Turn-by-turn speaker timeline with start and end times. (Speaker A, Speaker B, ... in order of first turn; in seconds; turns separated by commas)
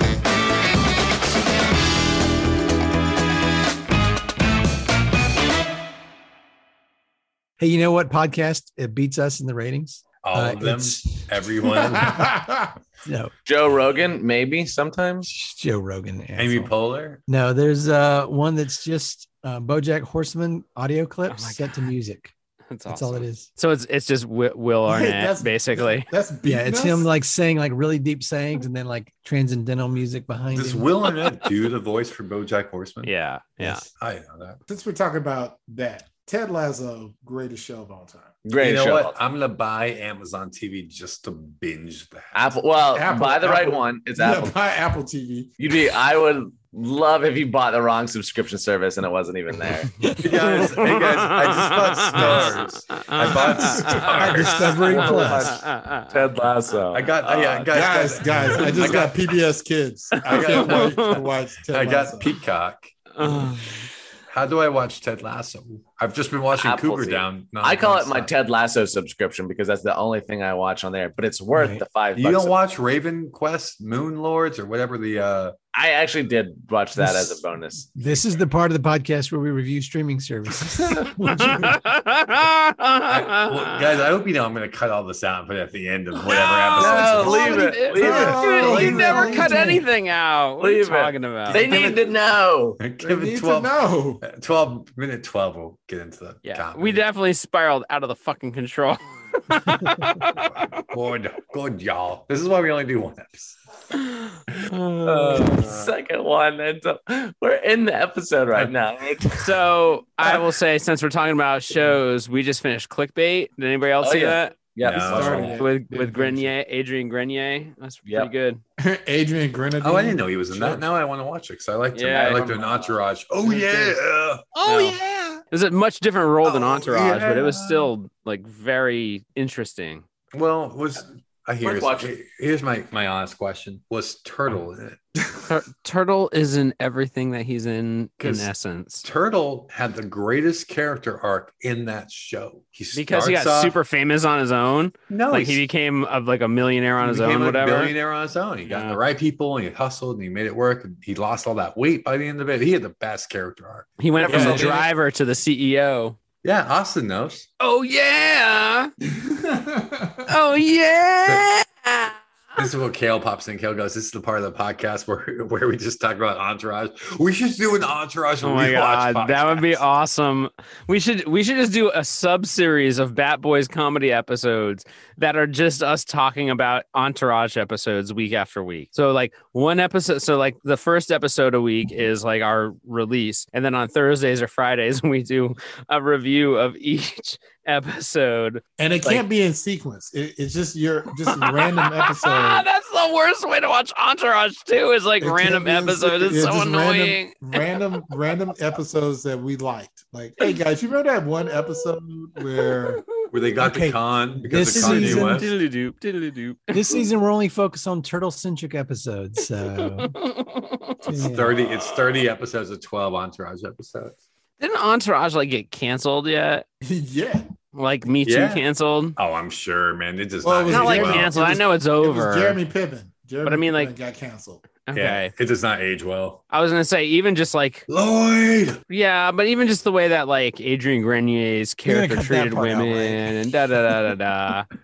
Speaker A: 7.6-11.3, Speaker B: 10.2-12.4, Speaker C: 11.9-12.7, Speaker A: 13.0-13.3, Speaker D: 13.5-15.3, Speaker A: 15.2-16.7, Speaker B: 16.4-17.2, Speaker A: 17.3-22.3, Speaker E: 21.3-21.9, Speaker E: 22.7-26.1, Speaker A: 22.9-23.5, Speaker C: 24.9-27.1, Speaker A: 26.5-30.9, Speaker B: 30.5-33.1, Speaker E: 33.0-33.9, Speaker B: 33.9-34.6, Speaker C: 34.7-38.4, Speaker D: 38.5-39.2, Speaker B: 38.6-42.5, Speaker D: 42.3-44.5, Speaker C: 42.9-45.5, Speaker D: 45.6-49.9, Speaker A: 50.0-50.7, Speaker B: 50.2-54.9, Speaker E: 50.5-52.6, Speaker E: 53.2-54.1, Speaker C: 53.3-55.2, Speaker A: 54.1-55.5, Speaker D: 54.3-57.9, Speaker E: 55.5-56.1, Speaker B: 56.9-59.1, Speaker C: 57.7-62.3, Speaker D: 58.7-59.1, Speaker B: 60.3-61.1, Speaker D: 60.3-60.8, Speaker E: 60.6-61.2, Speaker B: 61.7-62.9, Speaker E: 63.2-63.7, Speaker B: 64.3-68.3, Speaker D: 66.5-72.6, Speaker A: 71.5-71.8, Speaker B: 72.1-75.5, Speaker D: 75.7-77.9, Speaker A: 77.0-77.4, Speaker A: 78.0-81.8, Speaker E: 81.4-83.6, Speaker B: 83.1-87.7, Speaker E: 86.3-91.9, Speaker D: 86.5-89.2, Speaker C: 87.3-89.8, Speaker A: 88.0-89.8, Speaker D: 90.6-92.8, Speaker B: 91.5-91.9, Speaker B: 92.8-97.0, Speaker C: 93.0-94.2, Speaker E: 96.5-100.9, Speaker B: 100.8-103.6, Speaker D: 104.7-109.6, Speaker B: 105.0-105.9, Speaker E: 109.4-114.6, Speaker D: 114.0-115.7, Speaker B: 114.8-115.6, Speaker C: 115.1-116.5, Speaker E: 115.5-118.6, Speaker D: 118.0-118.3, Speaker C: 118.8-120.8, Speaker B: 119.8-124.6, Speaker E: 121.9-122.4, Speaker D: 122.1-122.9, Speaker E: 124.6-125.0, Speaker E: 125.5-130.1, Speaker B: 126.5-127.9, Speaker B: 130.3-135.2, Speaker D: 131.6-132.1, Speaker E: 135.5-139.0, Speaker B: 138.2-138.5, Speaker B: 139.0-143.8, Speaker E: 142.9-147.9, Speaker B: 145.1-145.6, Speaker B: 147.0-154.8, Speaker E: 148.7-149.0, Speaker E: 154.0-156.2, Speaker D: 154.2-154.9, Speaker B: 156.4-157.5, Speaker E: 157.6-158.9, Speaker C: 159.1-160.3, Speaker E: 160.3-162.2, Speaker B: 162.6-170.0, Speaker E: 168.4-189.2, Speaker C: 188.8-192.7, Speaker E: 191.2-197.8, Speaker C: 195.2-203.0, Speaker B: 203.3-205.5, Speaker A: 203.6-205.5, Speaker E: 204.8-207.0, Speaker A: 206.7-210.2, Speaker E: 210.0-211.1, Speaker A: 211.1-211.6, Speaker B: 211.1-214.2, Speaker E: 214.6-216.7, Speaker C: 216.8-217.5, Speaker E: 217.7-219.2, Speaker B: 218.2-218.7, Speaker B: 219.2-221.4, Speaker C: 220.4-224.7, Speaker E: 220.7-222.6, Speaker E: 223.5-223.9, Speaker E: 224.9-225.3, Speaker B: 224.9-226.4, Speaker E: 226.5-227.9, Speaker B: 227.9-228.8, Speaker E: 228.9-234.7, Speaker A: 231.8-233.4